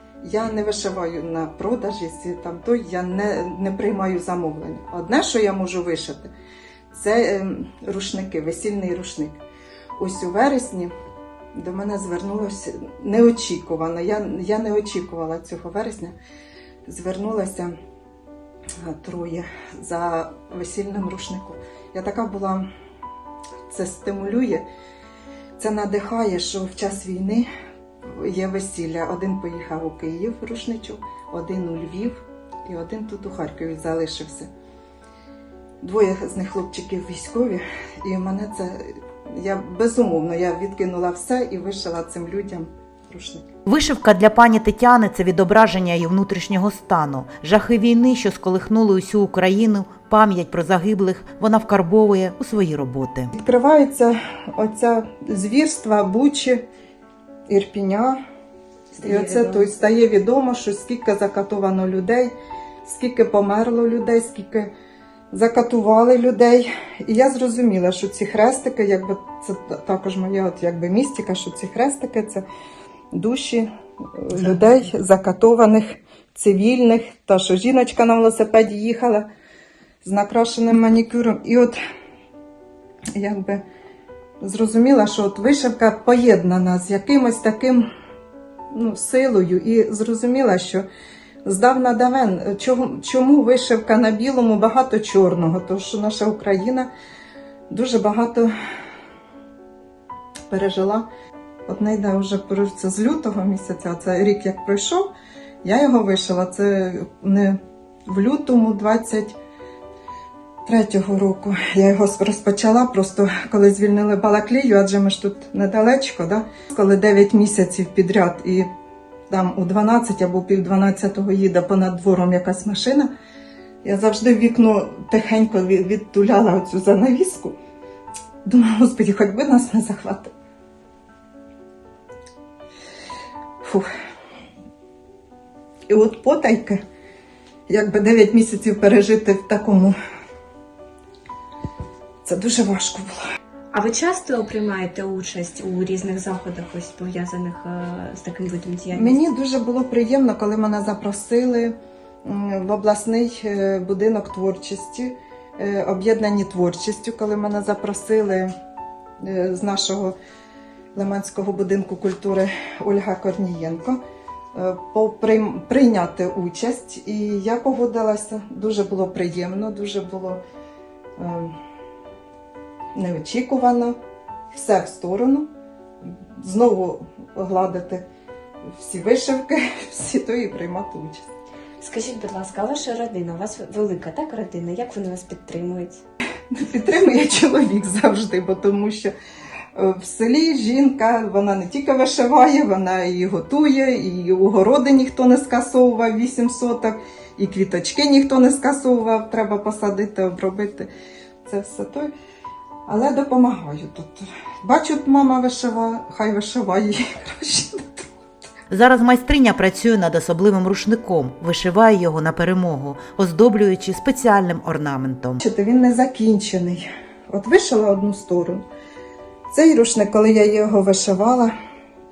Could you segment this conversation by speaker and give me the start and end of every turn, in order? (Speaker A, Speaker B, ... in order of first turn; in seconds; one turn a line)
Speaker A: 0.2-6.3
Speaker A: 6.9-9.4
Speaker A: 10.0-10.9
Speaker A: 11.6-16.1
Speaker A: 16.9-17.7
Speaker A: 18.8-22.7
Speaker A: 23.7-24.6
Speaker A: 25.6-27.5
Speaker A: 28.1-34.5
Speaker A: 35.8-43.5
Speaker B: 43.7-53.3
Speaker A: 53.3-56.6
Speaker A: 57.5-58.2
Speaker C: 58.9-59.7
Speaker A: 59.0-64.7
Speaker A: 65.3-72.5
Speaker A: 73.1-79.3
Speaker A: 80.0-81.8
Speaker A: 83.2-83.6
Speaker A: 84.4-87.9
Speaker A: 88.7-90.9
Speaker A: 91.5-96.9
Speaker A: 97.7-98.5
Speaker A: 100.5-101.1
Speaker A: 101.7-105.1
Speaker A: 105.6-109.4
Speaker A: 110.7-118.7
Speaker A: 119.3-123.1
Speaker A: 123.8-127.6
Speaker A: 128.4-130.3
Speaker A: 133.6-133.9
Speaker A: 135.9-136.8
Speaker A: 137.7-140.0
Speaker A: 142.2-143.2
Speaker C: 143.7-149.2
Speaker A: 148.9-158.5
Speaker A: 159.2-160.2
Speaker A: 160.9-164.0
Speaker A: 164.5-170.4
Speaker A: 171.2-171.5
Speaker A: 172.9-174.0
Speaker A: 174.5-175.5
Speaker A: 176.1-178.0
Speaker A: 178.8-181.3
Speaker C: 181.8-186.0
Speaker A: 186.5-189.2
Speaker A: 189.8-200.9
Speaker A: 201.4-202.1
Speaker A: 202.9-208.1
Speaker B: 208.7-215.4
Speaker A: 215.4-218.6
Speaker A: 219.5-221.5